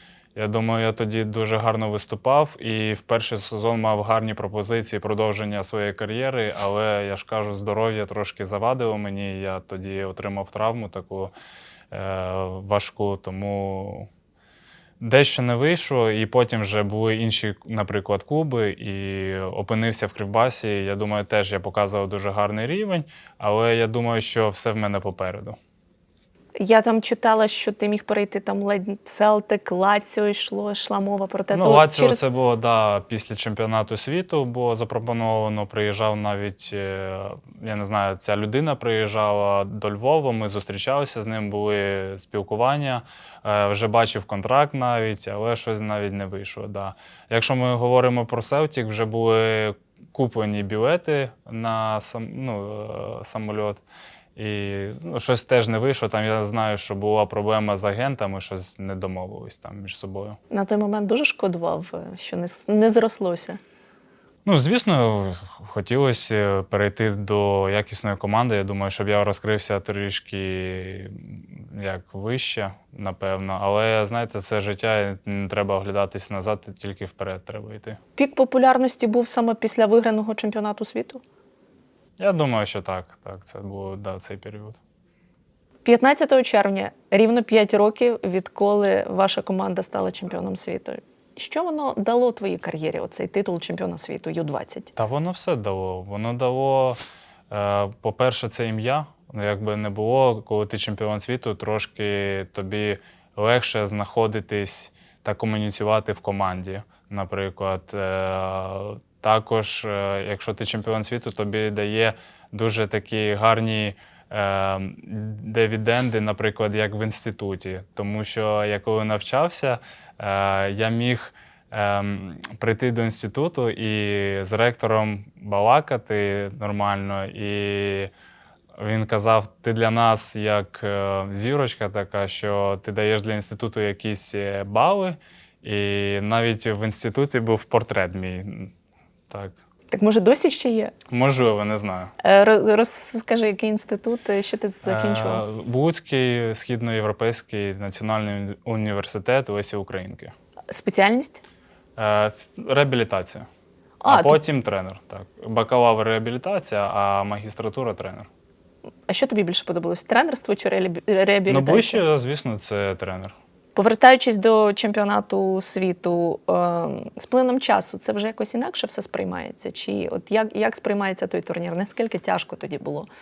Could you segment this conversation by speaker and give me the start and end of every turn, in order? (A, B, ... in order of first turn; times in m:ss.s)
0:00.4-0:11.3 A
0:11.9-0:14.1 A
0:15.0-0:25.6 A
0:26.6-0:32.2 B
0:31.5-0:53.8 A
0:54.4-1:00.4 A
1:00.5-1:03.6 B
1:04.4-1:18.0 A
1:18.2-1:21.2 B
1:22.2-1:24.8 A
1:25.8-1:34.9 B
1:35.0-2:08.1 A
2:08.8-2:18.7 A
2:19.3-2:19.6 A
2:19.9-2:20.9 B
2:21.1-2:22.1 A
2:22.2-2:25.4 B
2:24.8-2:30.3 A
2:30.7-2:31.4 B
2:32.0-2:33.4 A
2:34.0-2:34.4 B
2:34.1-2:38.3 A
2:39.1-2:42.0 B
2:41.5-2:43.3 A
2:43.8-2:53.1 B